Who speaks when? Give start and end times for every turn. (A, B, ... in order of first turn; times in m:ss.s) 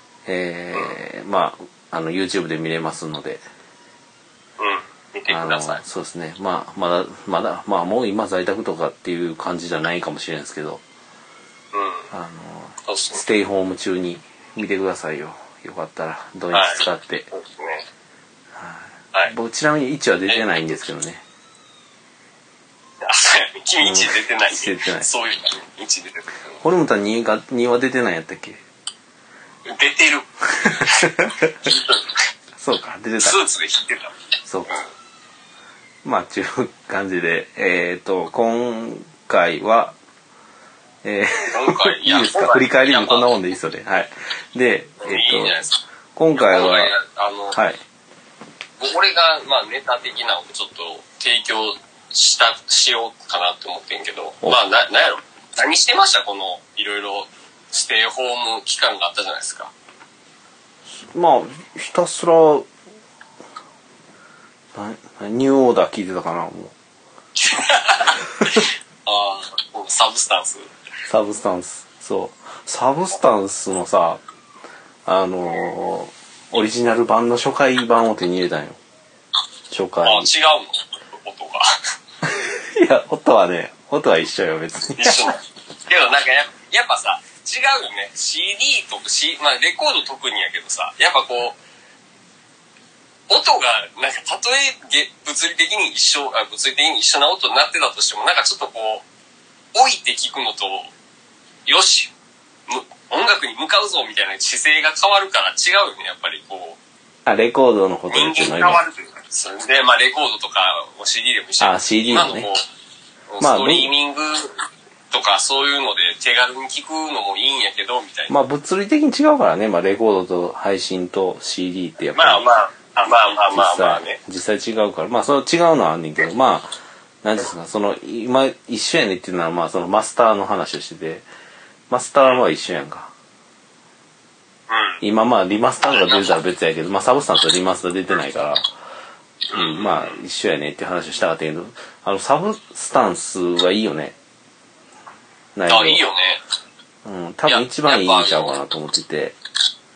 0:00.3-0:03.4 A
0:04.6-0:05.8 B
0:05.3-0:10.8 A
0:11.7-0:12.1 B
0:12.1-0:17.3 A
0:12.9-0:13.2 B
0:16.5-0:17.9 B
0:18.6-0:21.2 A
0:23.0-0:26.5 B
0:23.8-0:25.1 A
0:26.6-0:28.6 A
0:29.7-0:32.2 B
0:30.8-0:31.7 A
0:32.6-0:33.4 A
0:33.2-0:34.1 B
0:34.5-0:34.8 A
0:36.0-0:40.0 A
0:41.0-0:45.6 A
0:41.3-0:43.3 B
0:45.0-0:45.8 B
0:46.2-0:46.9 A
0:46.3-0:47.6 B
0:47.5-0:47.8 A
0:48.8-0:59.7 B
1:01.0-1:02.7 A
1:04.8-1:06.7 A
1:07.4-1:10.7 B
1:11.1-1:14.2 A
1:15.1-1:18.8 A
1:19.7-1:20.3 A
1:20.0-1:21.7 B
1:22.2-1:25.3 A
1:25.0-1:31.6 B
1:33.3-1:39.1 B
1:39.8-1:40.9 B
1:41.7-1:42.1 B
1:42.7-1:46.8 B
1:47.3-1:48.8 A
1:48.1-1:52.6 B
1:51.6-1:52.5 A
1:53.3-1:54.6 B
1:53.4-1:53.9 A
1:55.1-1:58.3 B
1:58.3-2:02.4 A
2:02.1-2:04.2 B
2:03.5-2:11.3 A
2:11.9-2:13.1 A
2:14.7-2:15.0 B
2:15.0-2:18.7 A
2:15.8-2:16.4 B
2:19.5-2:20.2 B
2:19.5-2:24.2 A
2:25.6-2:26.0 A
2:25.7-2:26.4 B
2:27.0-2:29.4 A
2:27.5-2:28.6 B